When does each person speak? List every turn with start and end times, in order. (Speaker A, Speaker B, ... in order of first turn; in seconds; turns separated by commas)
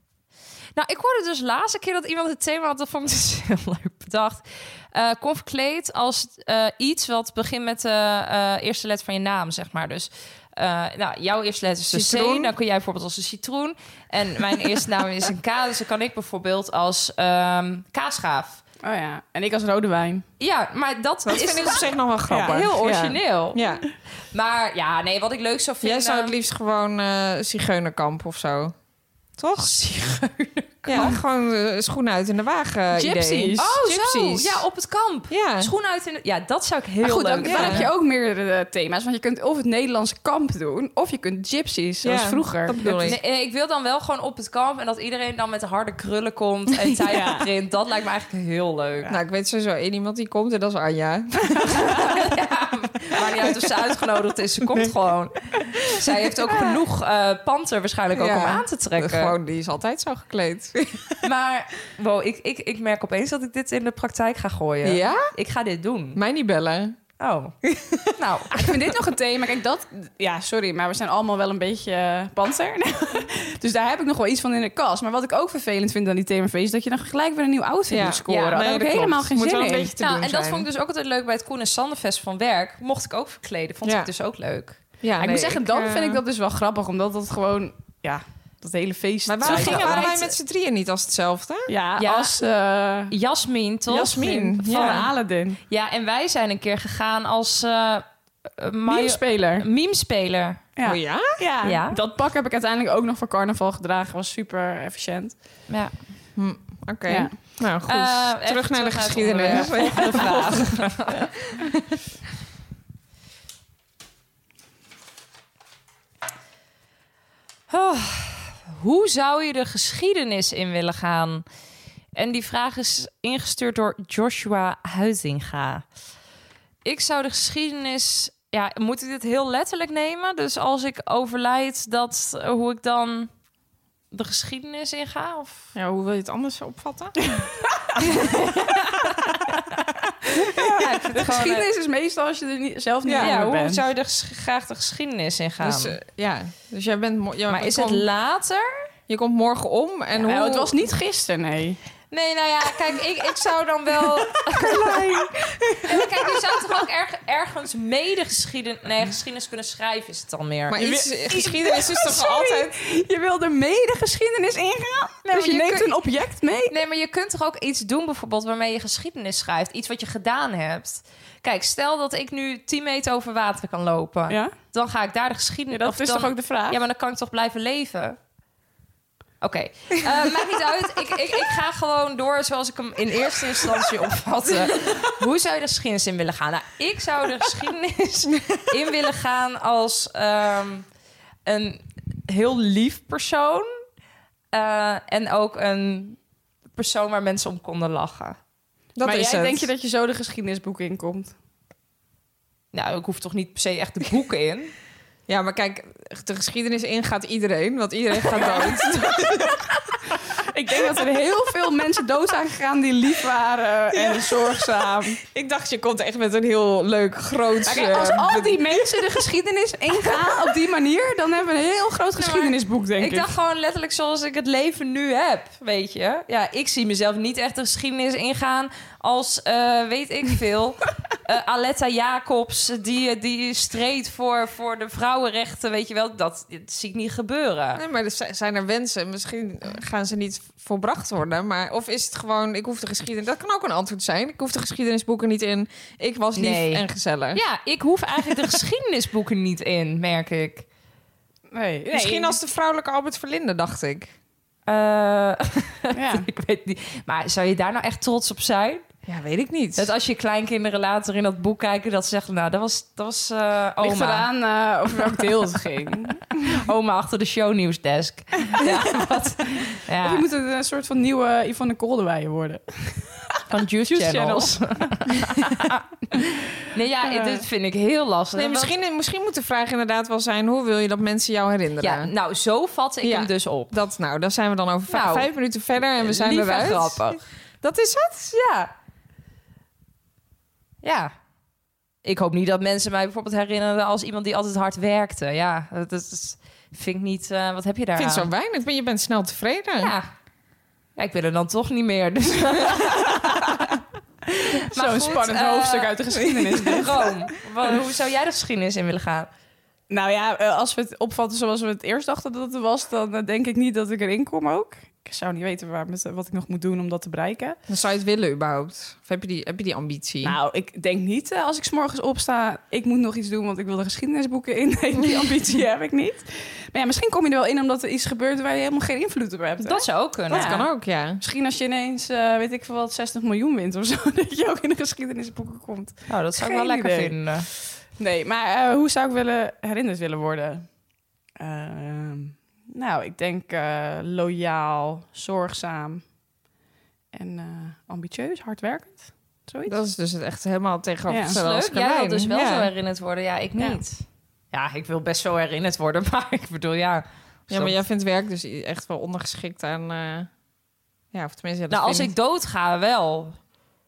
Speaker A: 0.8-18.6, Speaker B: 11.9-12.5, Speaker C: 18.8-20.2, Speaker A: 20.4-23.6, Speaker B: 21.3-23.8, Speaker A: 24.3-26.3, Speaker B: 25.8-28.7, Speaker B: 29.4-29.8, Speaker A: 29.6-31.2, Speaker B: 30.9-34.6, Speaker C: 32.9-33.6, Speaker A: 33.6-37.9, Speaker B: 35.3-35.7, Speaker C: 37.0-43.1, Speaker B: 37.4-37.9, Speaker B: 42.0-43.2, Speaker A: 43.0-49.1, Speaker C: 47.1-47.5, Speaker B: 49.1-52.2, Speaker A: 52.1-59.4, Speaker B: 53.2-53.6, Speaker B: 56.2-56.8, Speaker B: 58.1-61.2, Speaker A: 61.2-66.2, Speaker B: 64.8-65.3, Speaker B: 66.2-67.0, Speaker A: 67.2-67.5, Speaker B: 67.6-68.7, Speaker C: 68.2-79.9, Speaker B: 77.9-80.7, Speaker A: 78.3-79.2, Speaker A: 80.0-84.8, Speaker B: 83.8-84.1, Speaker B: 85.0-86.2, Speaker C: 85.2-90.3, Speaker B: 89.3-91.7, Speaker A: 89.5-90.2, Speaker C: 91.7-93.1, Speaker A: 92.0-92.4, Speaker A: 93.1-95.1, Speaker B: 93.9-95.1, Speaker C: 93.9-95.6, Speaker A: 95.7-100.6, Speaker C: 98.9-99.7, Speaker C: 100.8-105.4, Speaker B: 100.8-101.4, Speaker A: 101.6-102.0, Speaker B: 106.4-111.3, Speaker C: 107.1-107.3, Speaker A: 107.9-111.3, Speaker A: 117.7-121.4, Speaker A: 122.2-125.8, Speaker A: 126.8-133.3, Speaker A: 134.1-135.7, Speaker B: 135.8-137.2, Speaker B: 138.1-139.0, Speaker C: 140.5-143.8, Speaker A: 140.6-141.7, Speaker B: 143.1-143.3, Speaker A: 143.2-146.0, Speaker B: 145.6-148.1, Speaker A: 147.5-148.9, Speaker B: 149.1-150.7, Speaker C: 150.2-151.8, Speaker A: 152.1-155.3, Speaker B: 154.2-155.0, Speaker A: 155.8-160.8, Speaker B: 160.7-162.7, Speaker C: 160.8-166.7, Speaker A: 165.3-165.9, Speaker A: 166.7-178.2, Speaker C: 174.3-174.6, Speaker C: 175.7-176.8, Speaker A: 179.4-190.9, Speaker B: 184.5-185.0, Speaker A: 191.5-193.7, Speaker A: 194.5-196.2, Speaker A: 196.7-198.4, Speaker B: 199.0-199.7, Speaker C: 199.0-201.3, Speaker A: 202.7-204.7, Speaker B: 205.3-209.7, Speaker C: 210.3-215.2, Speaker B: 213.9-218.7, Speaker C: 217.7-223.3, Speaker A: 222.2-237.8, Speaker B: 237.8-247.4, Speaker A: 246.4-250.7, Speaker C: 251.5-252.4, Speaker B: 251.9-254.1, Speaker A: 254.7-258.9, Speaker C: 255.9-256.3, Speaker B: 259.1-259.9, Speaker A: 259.8-264.3, Speaker C: 263.8-266.5, Speaker A: 266.4-270.3, Speaker C: 270.0-276.2, Speaker A: 273.5-275.8, Speaker A: 276.7-278.7, Speaker C: 277.1-277.4, Speaker B: 278.3-282.1, Speaker A: 281.8-283.8, Speaker B: 283.0-288.3, Speaker A: 284.9-285.3, Speaker A: 286.0-287.2, Speaker A: 288.3-288.7, Speaker A: 290.8-291.1, Speaker A: 292.0-298.3, Speaker B: 298.0-299.9, Speaker A: 299.8-300.1, Speaker A: 301.0-303.3, Speaker C: 302.9-303.6, Speaker A: 304.4-309.3, Speaker C: 304.6-307.0, Speaker C: 309.9-317.6, Speaker B: 317.7-320.4, Speaker C: 320.2-337.2, Speaker A: 329.6-330.6, Speaker B: 330.3-331.2, Speaker A: 336.1-337.5, Speaker C: 338.0-340.7, Speaker C: 341.4-346.1, Speaker C: 347.1-349.8, Speaker B: 349.7-352.7, Speaker C: 351.1-351.4, Speaker A: 351.3-354.0, Speaker C: 353.6-353.8, Speaker A: 354.5-357.8, Speaker B: 357.5-360.3, Speaker B: 361.1-362.1, Speaker A: 361.7-363.4